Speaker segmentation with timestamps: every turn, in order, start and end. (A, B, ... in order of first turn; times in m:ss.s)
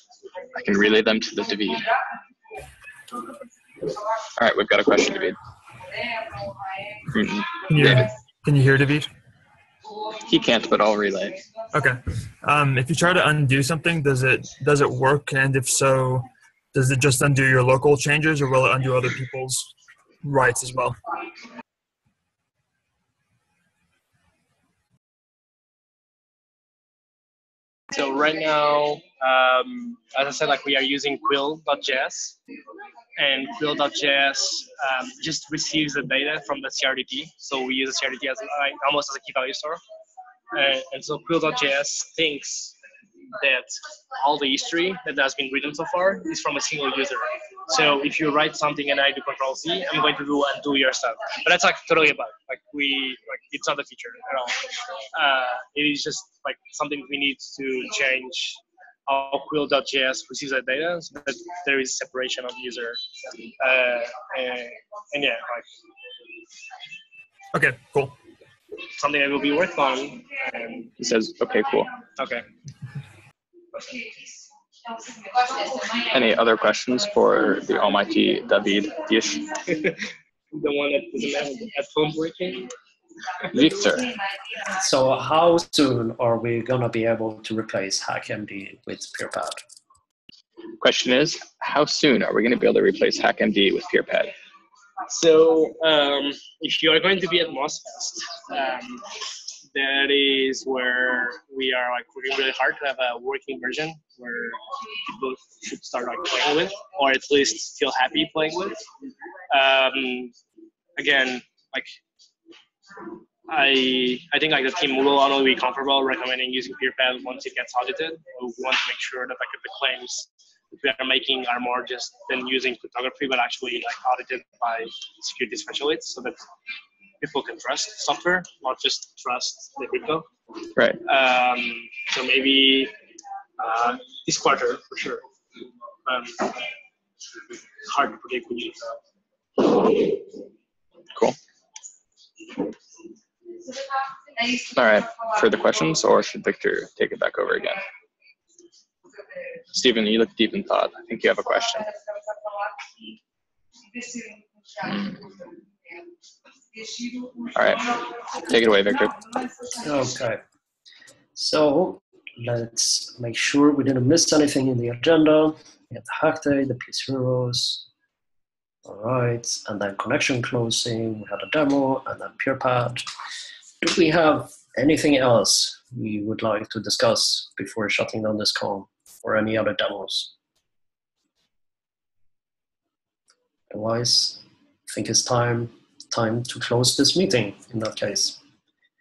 0:00.5-0:01.9 A
0:04.4-0:05.4 A
0:07.1-0:08.1 A
0:07.7-0:09.1 B
0:10.3-0:11.4 A
0:11.7-0:19.7 B
0:20.2-0:21.0 B
0:27.9-0:32.4 C
0:33.2-0:39.8 C
0:40.5-0:42.8 C
0:43.4-1:03.0 C
1:03.6-1:05.7 C
1:07.5-1:08.2 B
1:09.0-1:10.9 C
1:11.0-1:11.9 A
1:12.2-1:12.5 C
1:16.1-1:19.5 A
1:20.5-1:22.7 C
1:23.5-1:24.1 A
1:24.7-1:29.6 D
1:30.8-1:34.3 A
1:35.1-1:39.1 C
1:39.7-1:48.8 C
1:49.5-1:50.3 C
1:51.0-1:52.0 C
1:53.5-2:06.4 C
2:07.2-2:10.3 C
2:11.0-2:12.9 C
2:13.6-2:15.2 C
2:16.1-2:16.6 C
2:17.8-2:18.9 C
2:24.7-2:27.8 A
2:29.7-2:31.9 A
2:34.8-2:35.3 A
2:37.6-2:39.2 A
2:39.8-2:40.4 D
2:41.4-2:47.8 D
2:48.8-2:53.0 D
2:53.8-3:00.3 D
3:03.7-3:08.4 D